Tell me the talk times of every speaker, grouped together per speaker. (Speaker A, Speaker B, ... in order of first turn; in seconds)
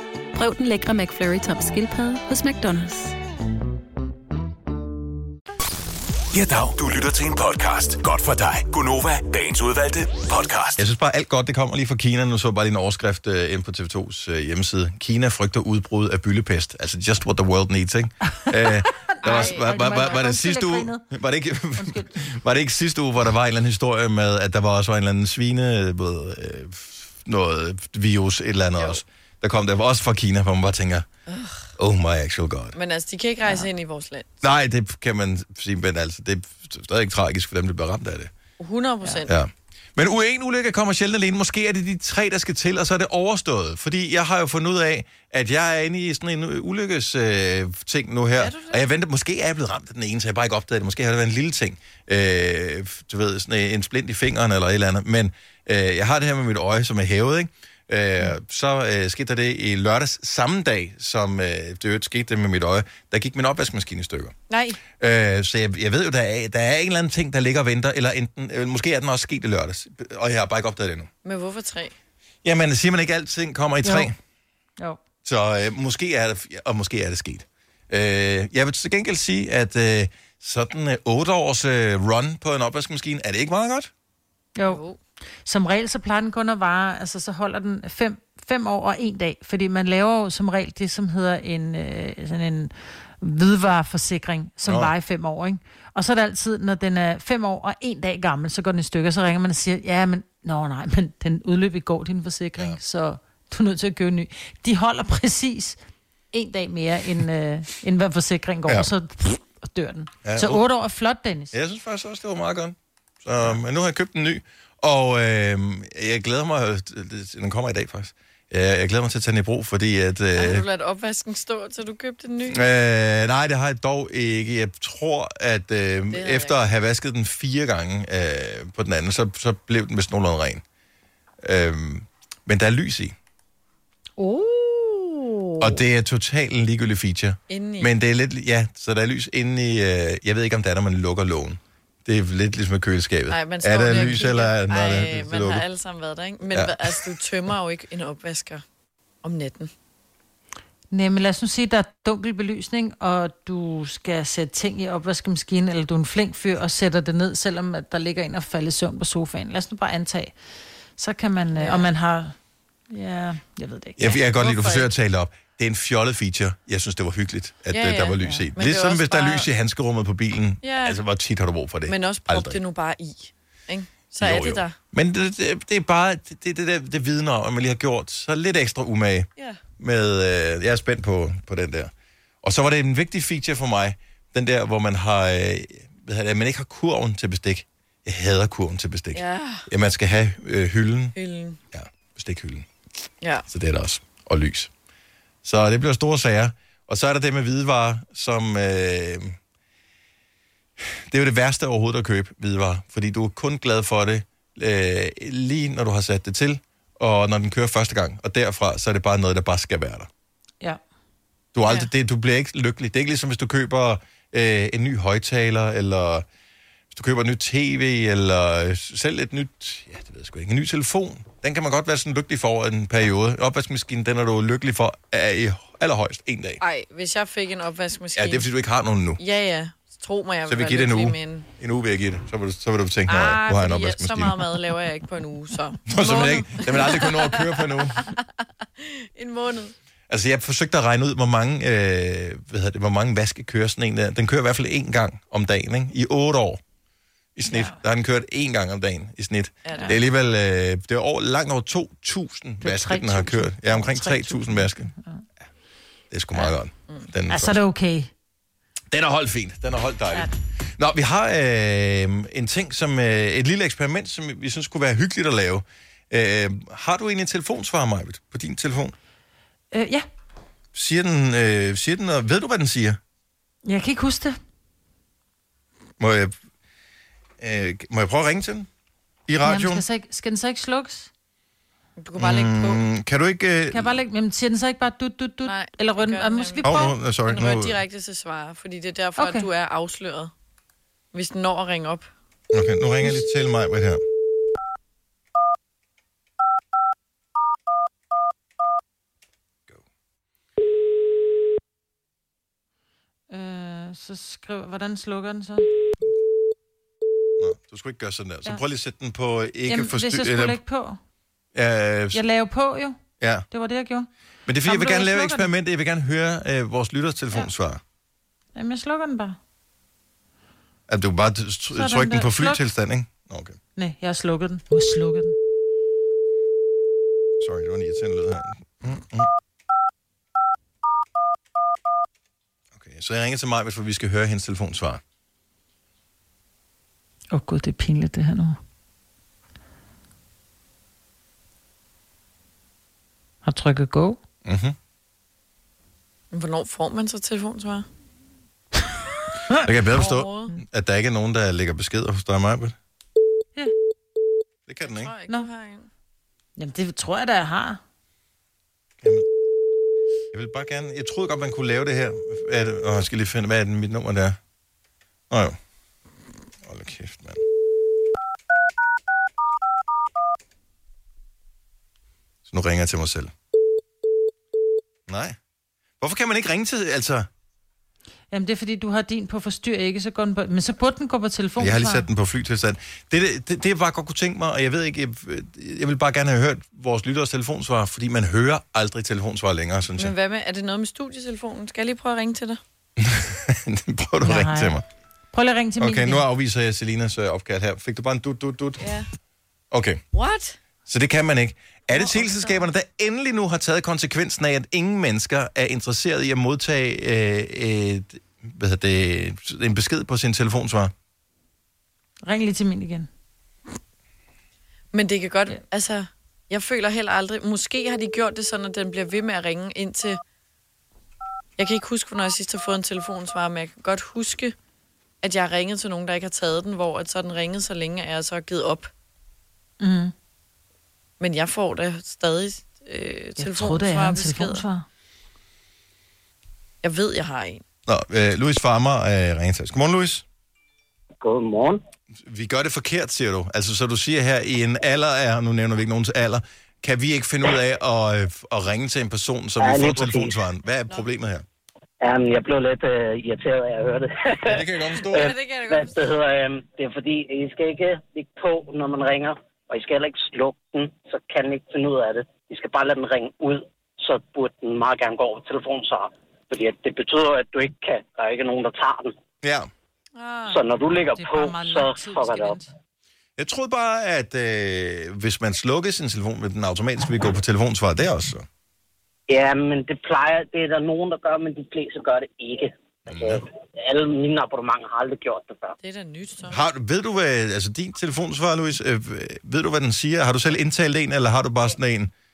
Speaker A: 0.3-3.2
Speaker B: 6.3-10.8
Speaker C: 10.8-31.1, 31.8-32.8, 34.4-38.3, 39.3-64.3, 65.0-71.1, 72.4-74.2, 75.2-83.9, 94.7-94.9, 110.2-110.6, 111.5-120.7, 122.5-130.6, 131.4-133.2, 135.6-145.7, 146.5-147.1, 164.0-172.6, 174.2-181.9, 182.4-191.2, 191.7-192.7, 193.5-194.7, 195.4-199.4, 200.8-210.1, 211.5-216.3, 216.9-226.6, 228.2-229.2, 230.5-234.6, 235.9-238.2, 240.1-246.6, 247.4-254.9, 256.1-257.6, 258.9-268.9, 270.7-273.0, 276.0-276.3, 277.4-278.7, 279.3-279.9, 282.2-284.0, 286.6-287.8, 292.5-294.0, 307.4-310.6, 311.5-312.2, 313.2-313.5, 314.5-317.8, 320.9-323.6, 327.4-329.3, 332.7-335.0, 344.4-344.8, 349.6-352.8, 354.7-355.1, 360.3-364.4, 365.3-365.6, 366.6-367.4, 372.5-373.3, 375.1-375.4, 376.0-377.3, 381.6-390.1, 393.0-394.8, 395.8-398.9, 399.7-400.0, 400.9-410.9, 437.9-440.2, 442.2-451.4, 454.5-455.3, 469.4-469.7, 473.4-478.5, 483.1-483.4, 486.5-492.1
Speaker D: 19.0-21.1, 21.8-22.1, 73.8-74.1, 84.6-84.8, 85.5-105.8, 106.3-111.5, 134.2-135.5, 150.9-160.3, 161.0-162.3, 162.9-164.2, 247.5-247.8, 252.6-255.2, 257.3-258.1, 269.7-270.1, 273.6-274.4, 279.4-281.1, 283.7-287.0, 289.2-289.5, 303.3-305.7, 309.7-311.0, 312.1-313.0, 313.5-314.1, 314.6-315.5, 318.6-319.4, 321.7-322.6, 323.8-325.4, 337.3-338.6, 343.4-344.2, 356.6-357.8, 378.3-382.1, 394.2-394.8, 395.3-396.2, 412.2-413.1, 429.8-430.1, 433.4-434.9, 471.1-472.7
Speaker E: 19.2-20.2, 31.3-31.7, 32.8-34.3, 38.6-39.3, 64.5-64.8, 71.2-71.9, 84.6-85.0, 120.3-122.7, 126.1-126.6, 137.5-137.9, 143.3-148.6, 149.2-149.7, 161.6-161.9, 164.4-164.9, 167.7-169.5, 170.6-171.0, 171.9-174.8, 189.1-189.7, 191.2-191.6, 226.6-228.5, 229.2-231.5, 233.1-238.2, 238.8-239.8, 249.7-250.0, 282.0-282.9, 285.4-290.3, 291.1-292.1, 346.3-347.9, 349.9-350.5, 354.8-355.9, 390.0-392.6, 398.8-399.1, 400.1-400.6, 402.0-402.5, 414.9-420.2, 421.6-424.6, 425.2-428.9, 431.2-434.6, 436.8-437.6, 455.1-456.1, 470.2-470.6, 485.8-486.6
Speaker F: 441.2-441.8, 449.6-450.3, 452.0-469.1, 470.5-472.6, 479.3-485.8